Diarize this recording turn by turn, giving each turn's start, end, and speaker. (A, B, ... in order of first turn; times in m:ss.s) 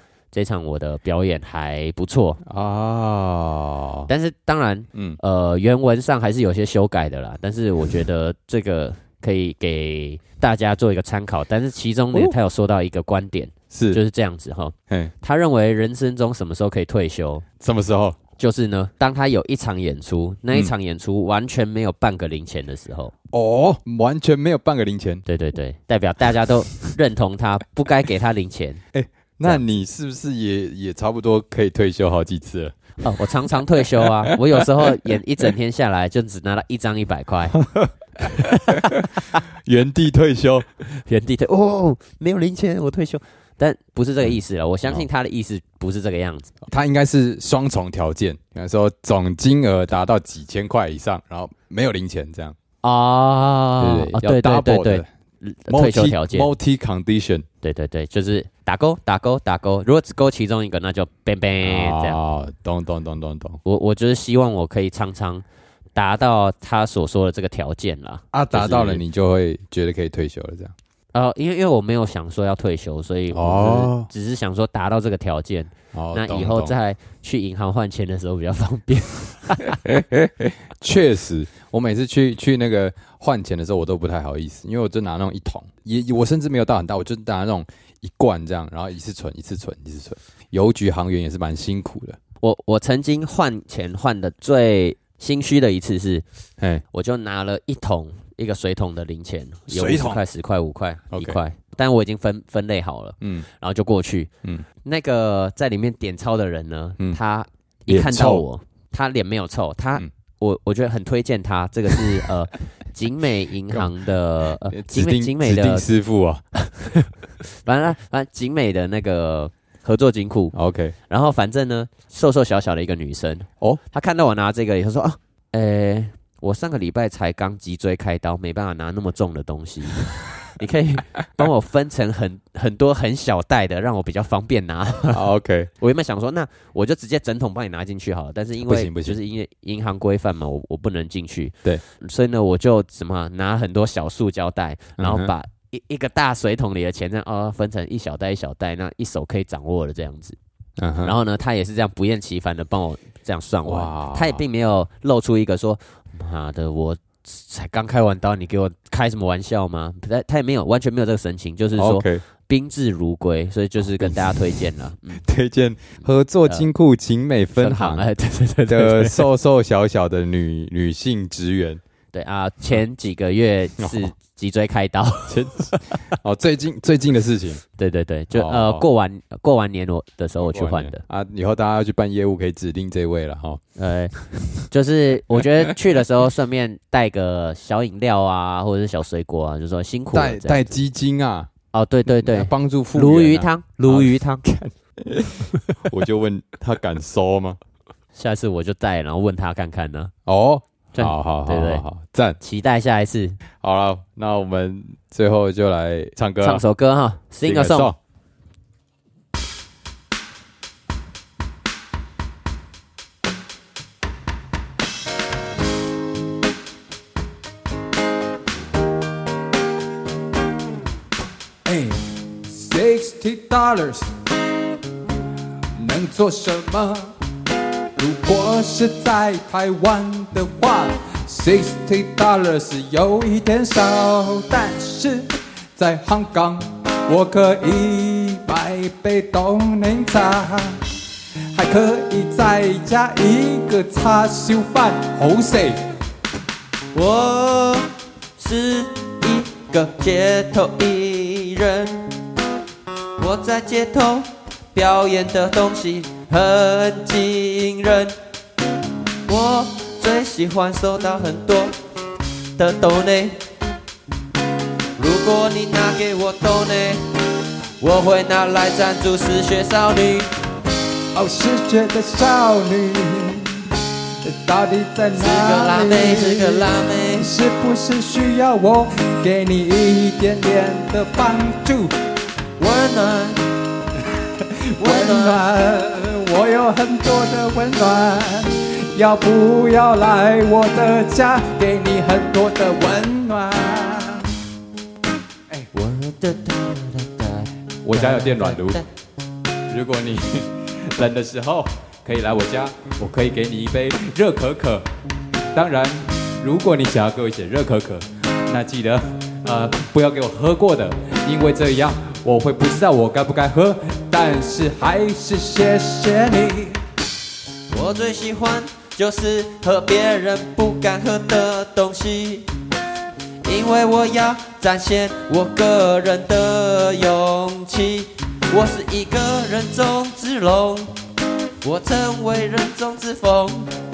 0:00.3-0:02.4 A
0:02.4-0:04.1 B
0:04.1-0:17.5 A
0:13.7-0:14.0 B
0:17.6-0:18.2 B
0:18.4-0:23.1 A
0:23.3-0:25.2 B
0:25.3-0:28.8 A
0:28.9-0:32.8 B
0:33.0-0:37.6 A
0:33.8-0:34.9 B
0:37.6-0:40.7 B
0:38.2-0:39.4 A
0:40.9-0:46.5 A
0:46.6-0:52.6 B
0:52.8-0:56.5 A
0:53.8-0:55.1 B
0:55.7-0:57.5 B
0:57.6-1:02.2 A
1:01.6-1:03.6 B
1:03.6-1:09.0 A
1:08.3-1:10.8 B
1:11.1-1:19.8 A
1:13.3-1:14.1 B
1:15.9-1:16.8 B
1:19.8-1:32.2 B
1:32.4-1:36.2 A
1:36.6-1:36.8 B
1:36.9-1:44.3 A
1:39.7-1:40.2 B
1:41.1-1:41.4 B
1:44.8-1:55.9 A
1:47.9-1:48.4 B
1:54.7-1:56.4 B
1:56.6-2:00.6 A
2:00.5-2:01.0 B
2:01.1-2:15.2 A
2:15.1-2:15.7 B
2:15.8-2:30.4 A
2:18.6-2:19.2 B
2:25.0-2:25.3 B
2:30.8-2:31.2 B
2:31.0-2:45.2 A
2:33.7-2:34.4 B
2:41.8-2:42.2 B
2:44.0-2:44.6 B
2:45.2-2:48.1 B
2:47.6-2:49.3 A
2:48.7-2:51.8 B
2:52.1-2:55.8 A
2:53.8-2:54.1 B
2:55.3-2:57.6 B
2:57.8-3:01.0 A
2:58.3-2:58.9 B
3:00.4-3:03.6 B
3:03.8-3:04.2 A
3:04.2-3:04.7 B
3:04.7-3:10.8 A
3:05.4-3:05.7 B
3:10.1-3:11.5 B
3:11.7-3:14.4 A
3:12.1-3:17.6 B
3:18.2-3:20.1 A
3:20.3-3:22.4 B
3:20.9-3:21.8 A
3:22.4-3:23.4 A
3:23.6-3:26.6 B
3:26.4-3:27.9 A
3:27.4-3:28.0 B
3:41.6-3:44.1 B
3:45.8-3:47.1 B
3:48.0-4:00.8 B
4:01.5-4:05.8 B
4:06.9-4:12.1 A
4:13.2-4:18.2 A
4:19.3-4:21.8 A
4:22.6-4:23.4 A
4:25.0-4:27.1 A
4:27.8-4:30.3 A
4:31.2-4:33.6 B
4:34.2-4:41.9 B
4:35.1-4:37.3 A
4:42.6-4:43.5 A
4:44.8-4:54.3 B
4:44.8-4:45.4 A
4:55.7-4:58.9 A
4:57.8-4:58.8 B
4:59.7-5:04.8 B
5:05.5-5:16.8 B
5:17.7-5:22.5 A
5:23.4-5:30.9 A
5:31.6-5:33.7 A